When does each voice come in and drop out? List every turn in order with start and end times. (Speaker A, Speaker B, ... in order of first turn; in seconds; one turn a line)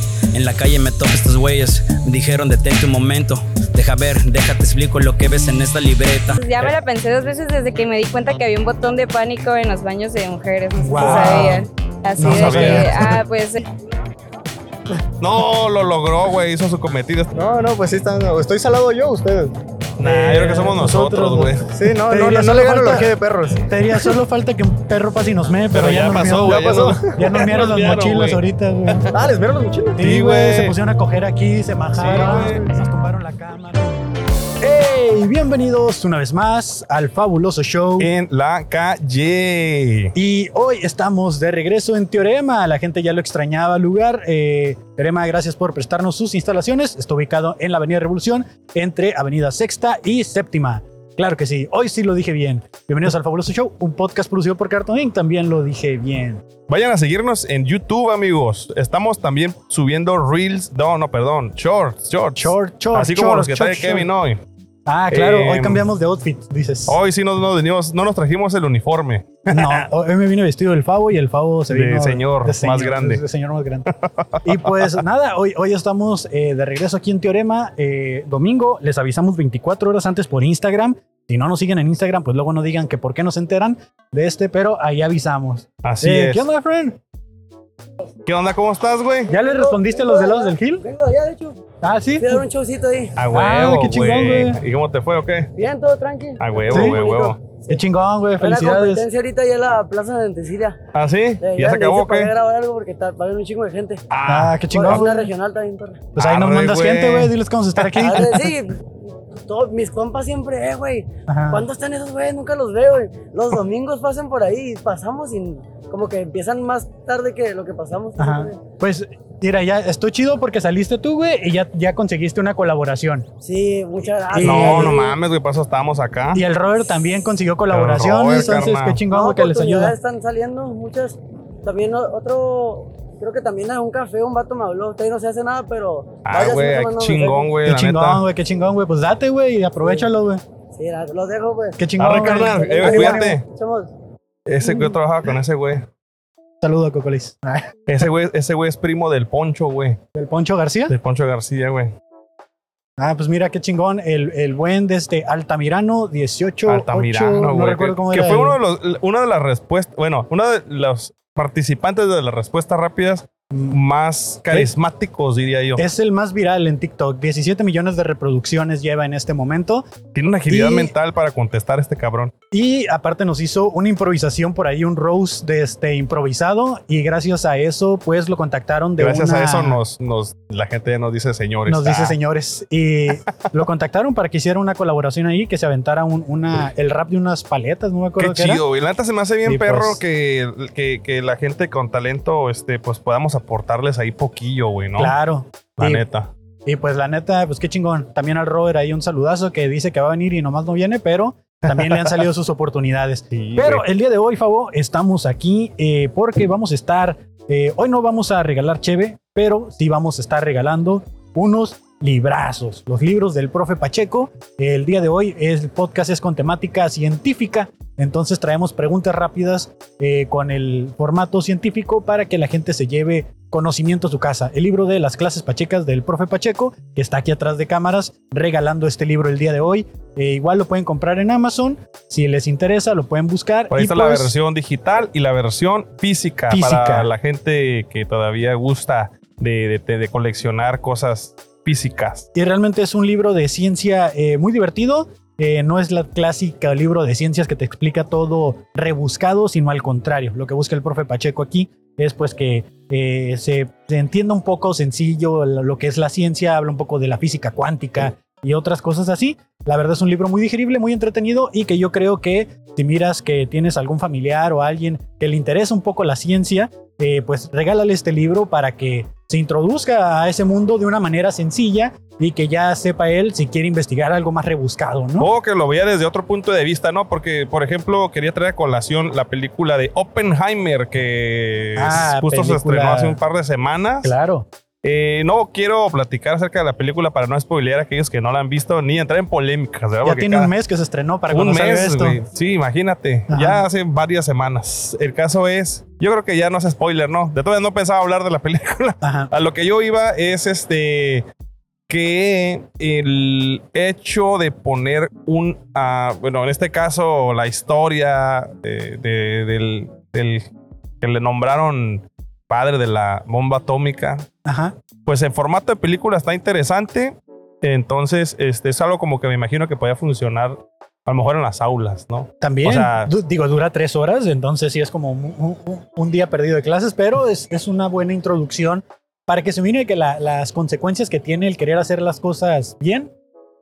Speaker A: 0.3-6.4
Speaker B: 6.4-13.6
Speaker C: 10.8-11.7
Speaker D: 11.0-11.6
Speaker C: 12.2-13.2
Speaker D: 12.2-13.1
Speaker D: 15.2-17.3
Speaker E: 17.4-19.6
Speaker D: 20.0-21.7
Speaker C: 20.0-29.1
Speaker E: 21.7-24.1
Speaker D: 25.7-28.4
Speaker E: 26.4-27.5
Speaker E: 29.1-30.0
Speaker C: 30.0-33.9
Speaker D: 30.0-30.8
Speaker D: 31.9-32.6
Speaker C: 34.6-38.1
Speaker D: 38.0-40.1
Speaker C: 40.1-56.4
Speaker D: 56.7-64.4
Speaker C: 62.4-64.1
Speaker C: 64.9-67.0
Speaker D: 65.1-65.8
Speaker D: 66.9-69.8
Speaker C: 69.5-87.0
Speaker D: 71.7-73.2
Speaker D: 73.9-74.9
Speaker D: 85.8-86.5
Speaker D: 88.3-89.3
Speaker C: 89.3-90.9
Speaker F: 89.3-91.6
Speaker C: 91.8-92.5
Speaker F: 92.2-93.2
Speaker D: 93.2-95.5
Speaker C: 93.3-94.6
Speaker F: 95.6-97.8
Speaker D: 96.4-97.4
Speaker C: 96.7-97.0
Speaker C: 97.7-99.1
Speaker F: 98.4-100.8
Speaker D: 100.9-102.3
Speaker F: 101.4-104.0
Speaker D: 104.1-105.0
Speaker C: 104.3-105.3
Speaker F: 104.7-106.1
Speaker C: 106.2-108.5
Speaker D: 106.2-108.0
Speaker F: 108.0-118.6
Speaker C: 111.3-111.7
Speaker C: 118.2-123.3
Speaker F: 123.4-125.2
Speaker C: 124.3-125.0
Speaker D: 124.4-126.5
Speaker C: 126.3-130.0
Speaker D: 127.7-129.0
Speaker F: 128.4-137.5
Speaker D: 136.2-138.2
Speaker C: 137.7-140.4
Speaker F: 139.8-140.1
Speaker F: 140.8-143.9
Speaker C: 141.8-143.4
Speaker D: 142.0-143.4
Speaker D: 144.5-145.9
Speaker C: 146.6-147.7
Speaker D: 147.9-150.0
Speaker C: 150.2-151.0
Speaker D: 150.9-151.9
Speaker C: 153.0-158.6
Speaker D: 156.7-165.9
Speaker C: 163.5-163.8
Speaker C: 165.8-169.8
Speaker D: 170.2-172.3
Speaker C: 170.5-170.9
Speaker C: 172.5-179.8
Speaker D: 179.0-182.2
Speaker C: 181.7-188.6
Speaker D: 188.2-195.1
Speaker C: 189.4-190.0
Speaker C: 195.0-196.0
Speaker D: 195.8-196.3
Speaker C: 196.7-234.3
Speaker D: 201.8-202.2
Speaker D: 203.3-203.8
Speaker D: 233.7-242.3
Speaker C: 236.5-237.1
Speaker C: 242.3-275.3
Speaker D: 275.2-284.1
Speaker C: 281.8-283.2
Speaker C: 284.0-284.5
Speaker D: 284.8-290.5
Speaker C: 290.0-292.2
Speaker D: 291.3-301.3
Speaker C: 293.3-293.6
Speaker C: 299.0-299.3
Speaker D: 301.9-310.5
Speaker D: 311.0-314.3
Speaker C: 314.4-314.8
Speaker D: 315.1-323.1
Speaker C: 322.4-333.1